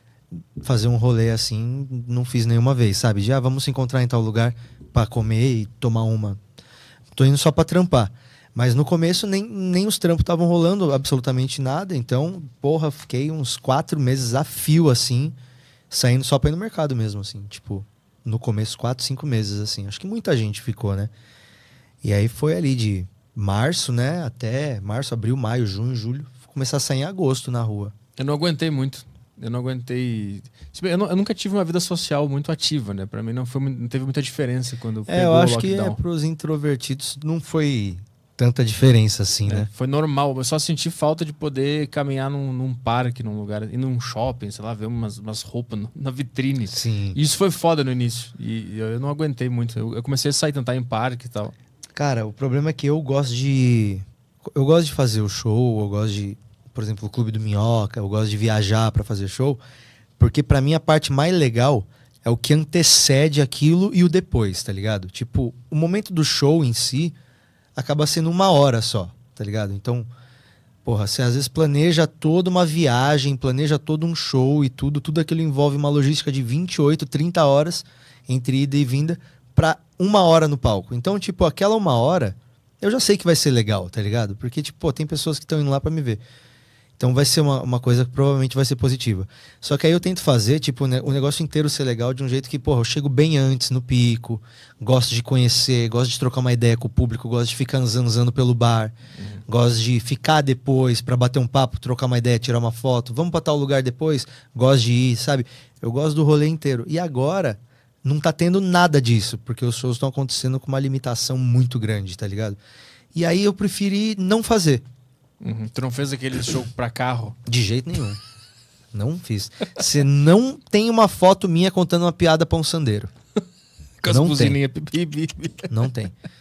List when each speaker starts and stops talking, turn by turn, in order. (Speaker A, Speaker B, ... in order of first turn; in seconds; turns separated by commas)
Speaker A: 0.6-6.4, Speaker A: 7.1-15.3, Speaker A: 15.9-21.1, Speaker A: 22.0-27.9, Speaker B: 28.2-36.0, Speaker A: 35.0-39.7, Speaker B: 39.5-51.5, Speaker A: 46.7-47.2, Speaker A: 51.9-59.6, Speaker A: 60.2-67.1, Speaker A: 67.8-70.1, Speaker A: 70.8-86.2, Speaker A: 87.0-98.9, Speaker A: 99.5-112.6, Speaker A: 113.1-114.8, Speaker B: 115.4-117.3, Speaker A: 117.5-118.2, Speaker A: 118.9-123.1, Speaker B: 124.0-125.7, Speaker A: 124.0-124.6, Speaker A: 125.7-126.1